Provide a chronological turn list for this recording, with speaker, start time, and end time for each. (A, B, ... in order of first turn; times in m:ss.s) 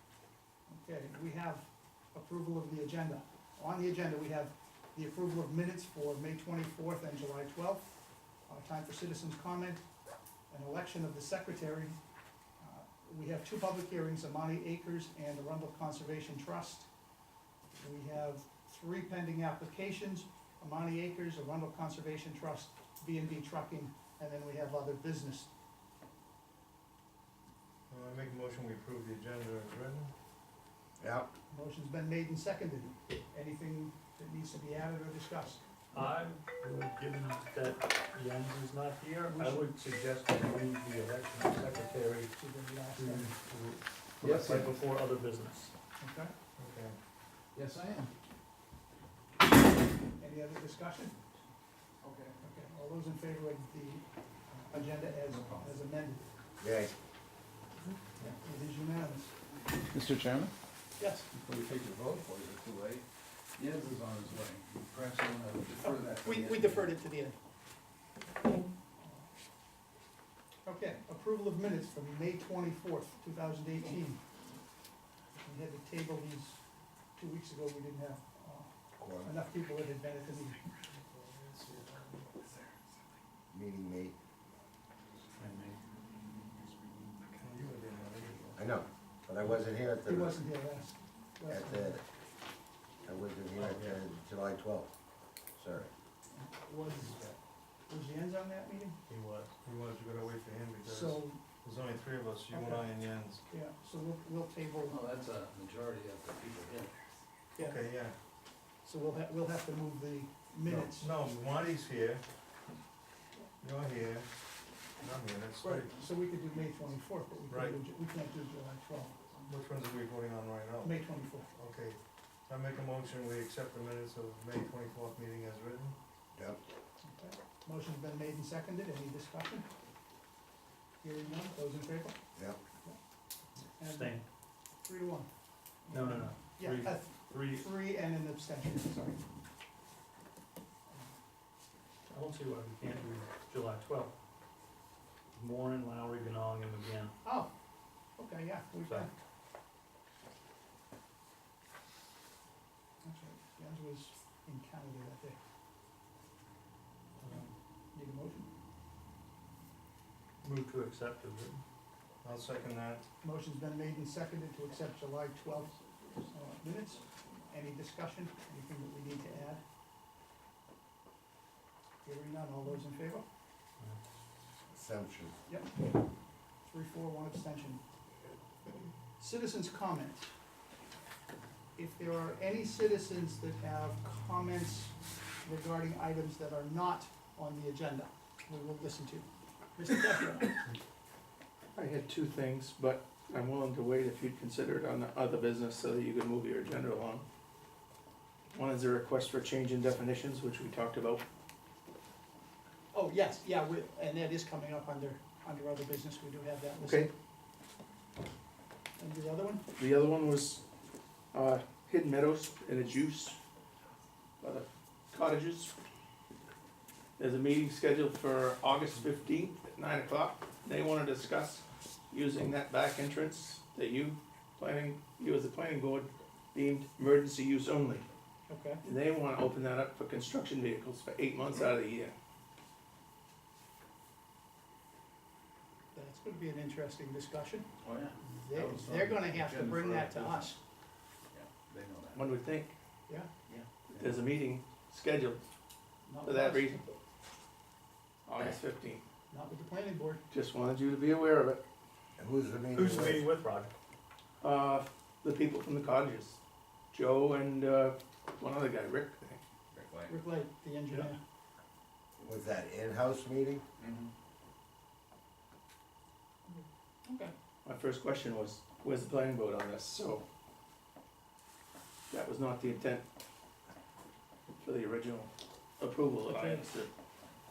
0:00.7-0:07.9 A
0:08.5-0:09.8 A
0:10.5-0:12.0 A
0:12.6-0:16.9 A
0:17.8-0:25.5 A
0:27.9-0:30.1 B
0:31.0-0:31.3 C
0:31.5-0:35.6 A
0:35.9-0:42.4 D
0:39.2-0:39.7 A
0:42.4-0:43.3 A
0:42.9-0:45.7 D
0:44.2-0:44.8 E
0:46.0-0:46.3 A
0:46.6-0:47.0 B
0:47.5-0:48.1 E
0:50.2-0:51.2 A
0:52.0-0:52.4 E
0:52.4-0:56.2 A
0:55.2-0:55.7 E
0:56.6-0:56.9 C
0:58.3-0:59.3 A
0:59.8-1:00.5 E
1:01.0-1:01.3 A
1:01.3-1:06.9 E
1:05.8-1:07.4 A
1:09.0-1:09.2 A
1:10.6-1:14.2 A
1:15.4-1:16.6 A
1:17.2-1:18.7 A
1:19.0-1:19.3 C
1:19.2-1:20.6 A
1:20.9-1:22.4 B
1:23.5-1:24.1 C
1:25.4-1:25.7 D
1:27.3-1:28.6 B
1:28.6-1:30.4 C
1:30.0-1:32.0 A
1:31.5-1:32.0 C
1:33.0-1:34.9 C
1:33.6-1:33.9 D
1:35.6-1:35.9 C
1:36.3-1:37.3 A
1:37.9-1:39.0 A
1:39.1-1:39.5 D
1:39.6-1:43.4 B
1:40.8-1:41.4 A
1:42.5-1:42.9 A
1:43.5-1:45.0 A
1:44.8-1:46.9 E
1:47.6-1:48.1 B
1:48.8-1:51.1 A
1:50.7-1:52.2 B
1:53.6-1:54.3 B
1:55.0-1:55.9 B
1:55.6-1:59.2 A
1:57.5-1:57.8 B
1:59.4-2:06.0 B
2:00.8-2:01.5 A
2:06.3-2:06.6 C
2:07.0-2:09.7 A
2:11.0-2:12.2 A
2:13.8-2:14.2 A
2:13.9-2:14.2 D
2:14.8-2:15.3 A
2:15.8-2:19.2 A
2:15.9-2:17.7 D
2:22.1-2:24.1 D
2:25.3-2:27.1 D
2:27.2-2:27.5 A
2:28.2-2:29.1 A
2:33.0-2:35.4 A
2:37.2-2:37.5 D
2:37.2-2:38.5 A
2:40.4-2:41.6 D
2:42.2-2:43.0 B
2:43.2-2:49.6 A
2:52.0-2:53.2 A
2:54.7-2:55.3 C
2:55.5-2:55.7 A
2:56.6-2:57.8 A
2:59.2-3:00.3 A
3:01.8-3:10.6 A
3:11.7-3:17.2 F
3:18.5-3:21.2 F
3:22.9-3:27.1 A
3:26.8-3:27.1 F
3:29.0-3:29.6 A
3:29.8-3:30.6 F
3:31.3-3:33.4 F
3:34.4-3:35.7 F
3:37.2-3:48.1 F
3:48.5-3:48.8 A
3:48.8-3:52.1 F
3:55.9-3:57.7 A
3:57.8-4:00.5 E
3:58.3-4:00.6 A
4:01.3-4:02.3 E
4:02.1-4:02.7 F
4:03.5-4:04.2 E
4:03.9-4:05.5 F
4:06.0-4:06.9 A
4:06.2-4:06.9 F
4:08.3-4:09.0 F
4:09.3-4:10.2 A
4:10.3-4:11.6 F
4:12.2-4:13.2 C
4:12.7-4:13.7 D
4:14.4-4:16.4 F
4:16.9-4:19.4 F
4:19.7-4:20.1 E
4:20.1-4:21.2 A
4:22.2-4:23.6 C
4:23.8-4:24.1 E
4:26.5-4:27.3 A
4:27.6-4:30.2 F
4:32.1-4:33.0 F
4:34.6-4:36.9 F
4:36.2-4:36.6 A